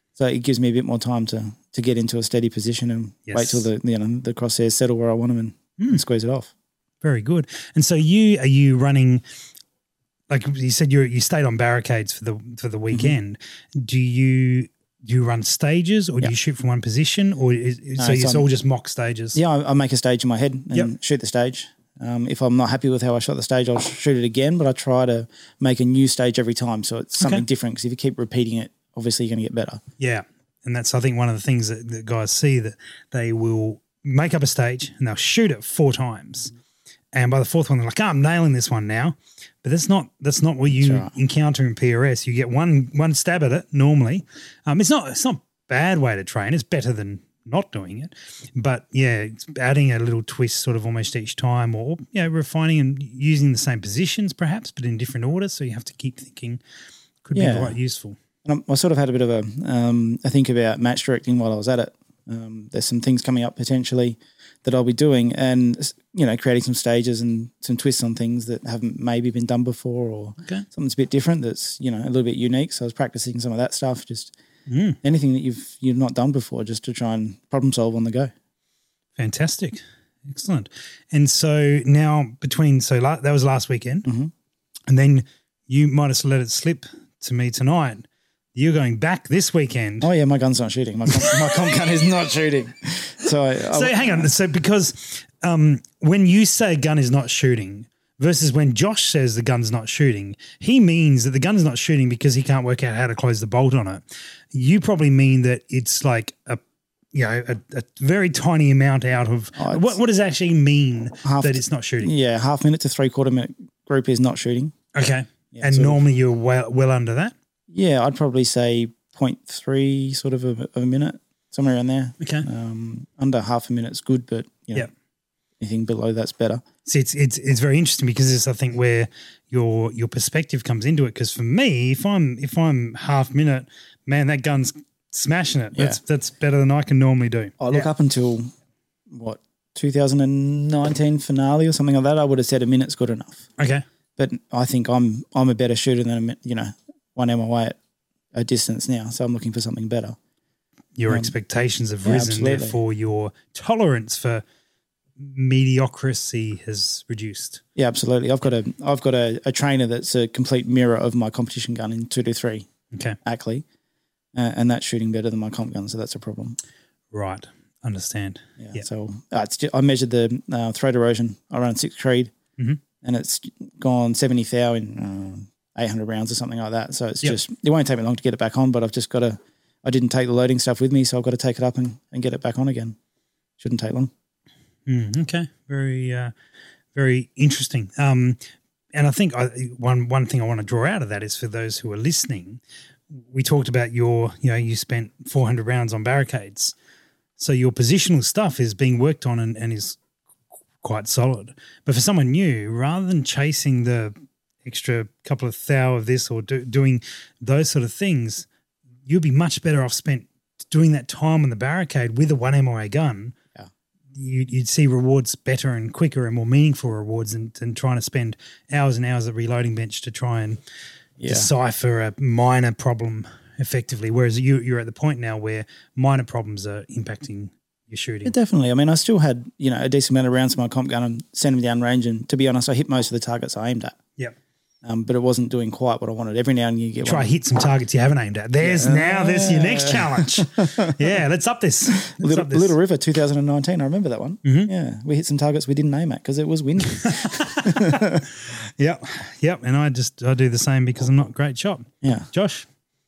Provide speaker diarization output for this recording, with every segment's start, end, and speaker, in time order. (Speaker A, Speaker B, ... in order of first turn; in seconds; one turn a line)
Speaker A: 0.2-6.5
Speaker B: 3.2-3.7
Speaker B: 7.0-9.2
Speaker B: 10.3-19.4
Speaker A: 18.0-18.4
Speaker A: 19.3-29.8
Speaker B: 27.2-27.4
Speaker B: 30.0-36.5
Speaker B: 37.1-56.6
Speaker A: 40.7-41.1
Speaker B: 57.2-58.2
Speaker A: 57.3-57.8
Speaker A: 58.4-74.3
Speaker B: 74.7-75.0
Speaker A: 75.0-78.3
Speaker B: 79.2-84.1
Speaker A: 84.0-84.3
Speaker B: 84.9-90.1
Speaker A: 90.0-94.3
Speaker B: 93.7-106.6
Speaker B: 107.1-112.1
Speaker A: 109.6-110.0
Speaker A: 111.2-114.7
Speaker B: 114.9-117.3
Speaker A: 115.5-116.0
Speaker A: 117.7-124.9
Speaker B: 122.2-122.5
Speaker A: 125.6-126.6
Speaker B: 126.8-137.9
Speaker A: 137.6-138.5
Speaker A: 139.1-143.4
Speaker B: 143.6-143.8
Speaker A: 144.2-147.8
Speaker A: 148.3-150.2
Speaker B: 151.0-154.4
Speaker A: 151.1-151.3
Speaker A: 152.0-152.8
Speaker B: 155.2-157.6
Speaker A: 157.8-162.7
Speaker B: 162.9-163.2
Speaker A: 163.2-163.6
Speaker A: 164.3-166.6
Speaker B: 167.1-168.8
Speaker A: 168.6-172.3
Speaker A: 173.0-182.9
Speaker A: 183.6-184.1
Speaker B: 184.9-186.3
Speaker B: 186.9-188.4
Speaker B: 188.9-192.6
Speaker B: 193.1-196.7
Speaker B: 197.4-200.0
Speaker B: 200.8-208.5
Speaker B: 209.1-213.3
Speaker B: 214.1-220.6
Speaker A: 221.2-221.5
Speaker B: 221.2-228.3
Speaker A: 228.2-234.0
Speaker A: 234.8-237.3
Speaker B: 237.0-242.7
Speaker A: 238.6-241.0
Speaker A: 241.9-248.2
Speaker B: 244.4-244.7
Speaker B: 246.9-252.7
Speaker A: 252.0-252.3